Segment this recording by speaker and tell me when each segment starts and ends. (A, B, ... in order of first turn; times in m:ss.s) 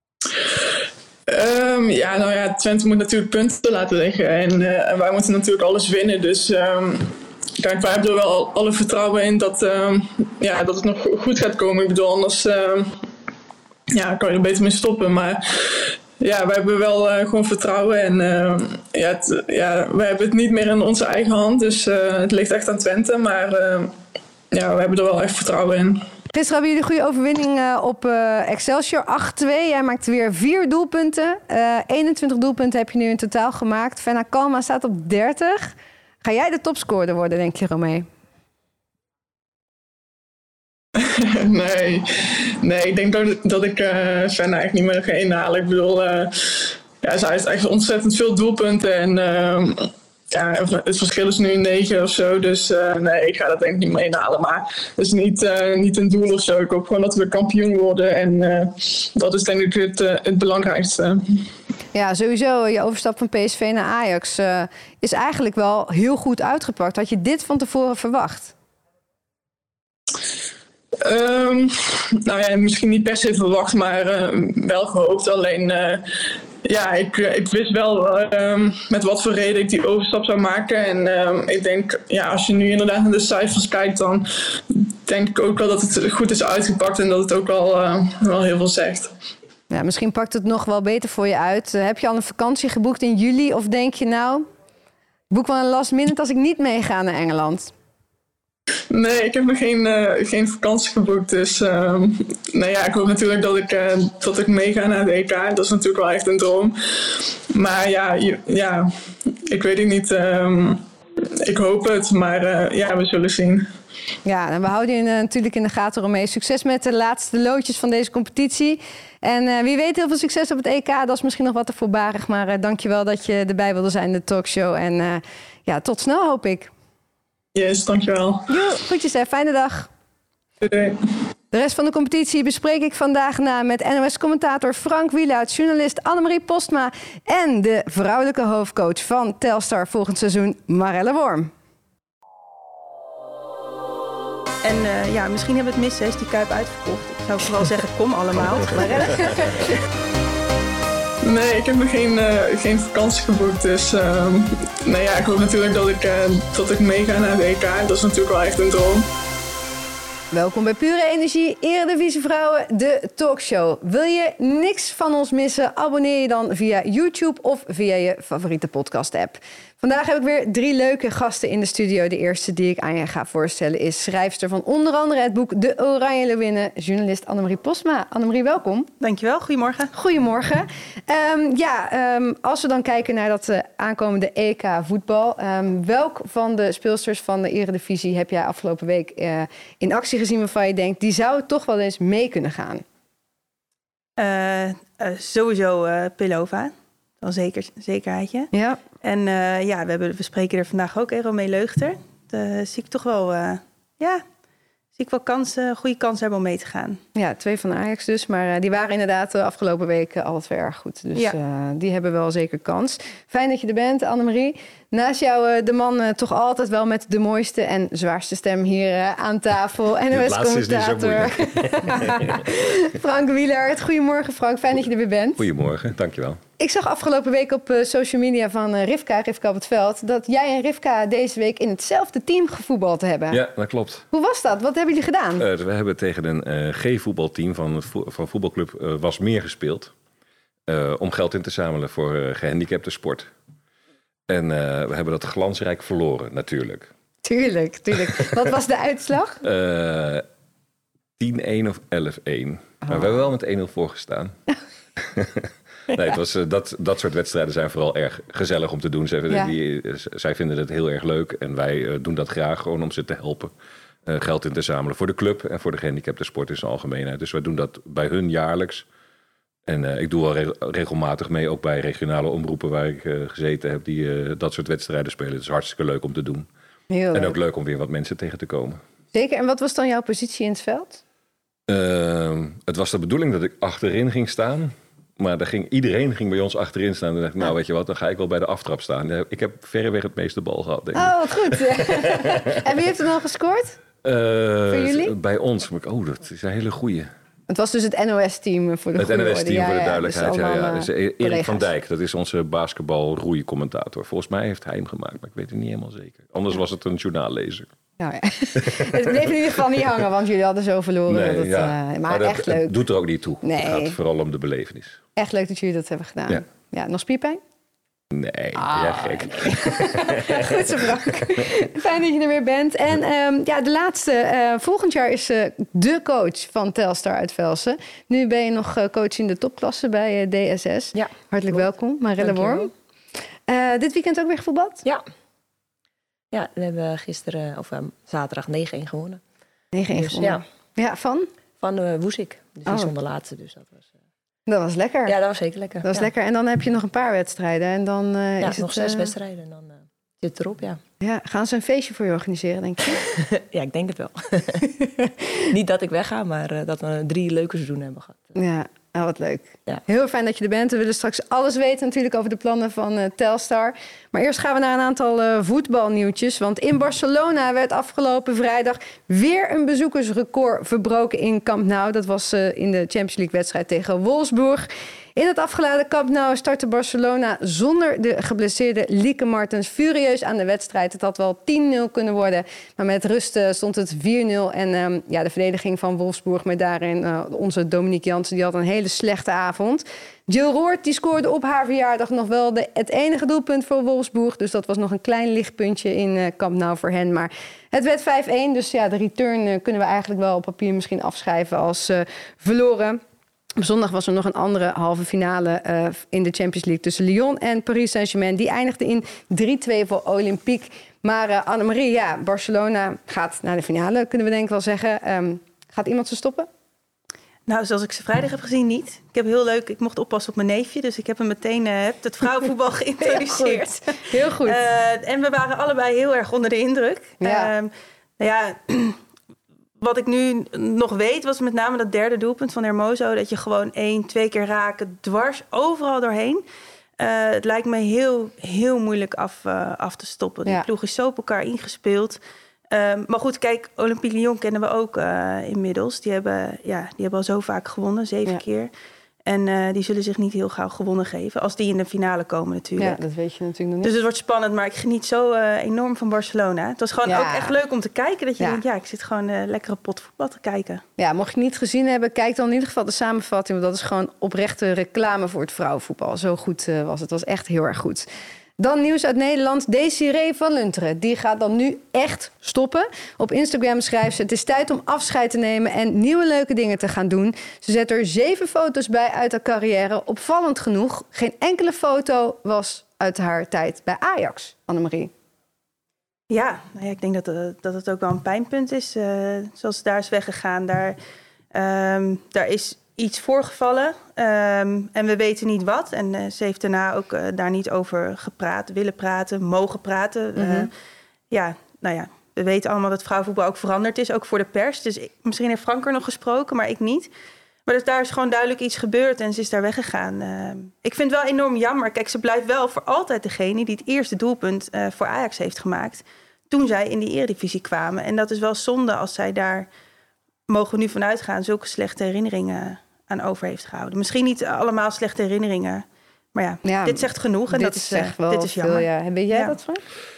0:01.3-0:13.0 A
0:13.9-0:23.9 A
0:24.5-0:26.0 A
0:26.3-0:38.1 B
0:41.0-1:01.5 A
1:01.9-1:08.5 B
1:11.0-1:16.0 A
1:16.6-1:29.1 A
1:29.7-1:34.4 B
1:35.3-1:37.7 B
1:38.9-1:48.9 A
1:49.4-1:50.8 A
1:51.4-1:53.7 A
1:54.2-2:06.7 B
2:07.6-2:08.4 A
2:08.5-2:09.9 B
2:10.6-2:11.0 A
2:11.5-2:21.5 B
2:24.6-2:29.3 C
2:28.6-2:29.7 B
2:31.2-2:39.1 A
2:40.3-2:58.9 B
2:59.0-2:59.9 C
2:59.9-3:12.8 B
3:14.2-3:24.2 C
3:18.5-3:18.8 B
3:25.0-3:27.0 C
3:27.1-3:45.4 B
3:40.1-3:42.4 D
3:45.4-3:46.4 D
3:46.6-3:53.4 B
3:53.3-3:54.1 D
3:54.1-3:55.4 B
3:55.4-3:59.9 D
4:00.7-4:03.3 D
4:04.3-4:06.9 D
4:07.2-4:09.4 B
4:09.4-4:10.2 D
4:11.2-4:14.4 D
4:15.0-4:23.5 D
4:24.1-4:28.9 D
4:29.6-4:36.5 D
4:36.9-4:37.4 B
4:37.1-4:38.8 D
4:39.1-4:41.0 B
4:41.7-4:52.6 D
4:50.9-4:53.8 B
4:54.0-4:57.1 D
4:54.7-4:55.1 B
4:57.5-5:01.7 B
4:59.0-5:07.7 D
5:08.0-5:12.8 B
5:08.6-5:09.3 D
5:11.1-5:15.0 D
5:13.4-5:14.0 B
5:15.2-5:17.4 B
5:18.1-5:21.1 D
5:18.6-5:32.7 B
5:30.9-5:31.7 E
5:32.2-5:32.7 E
5:33.5-5:34.8 B
5:36.3-5:39.2 E
5:39.7-5:41.3 B
5:39.9-5:40.4 E
5:41.6-5:43.8 E
5:42.7-5:42.9 B
5:44.5-5:45.1 B
5:45.1-5:46.1 E
5:45.8-5:49.2 B
5:48.4-5:50.8 E
5:51.0-5:53.0 B
5:52.9-5:54.7 E
5:55.5-5:58.3 E
5:58.4-6:43.0 B
6:43.6-6:56.5 B
6:57.5-7:09.0 C
7:03.0-7:04.6 B
7:07.2-7:07.5 B
7:09.8-7:16.4 C
7:17.0-7:22.2 C
7:22.7-7:28.7 C
7:29.2-7:33.0 C
7:32.8-7:33.9 B
7:33.8-7:40.8 C
7:37.1-7:37.6 B
7:41.0-7:48.1 B
7:48.6-8:05.1 B
8:06.3-8:11.0 C
8:11.5-8:20.7 C
8:20.4-8:20.7 B
8:21.3-8:27.1 C
8:27.7-8:39.7 C
8:40.5-8:49.6 C
8:46.6-8:49.8 B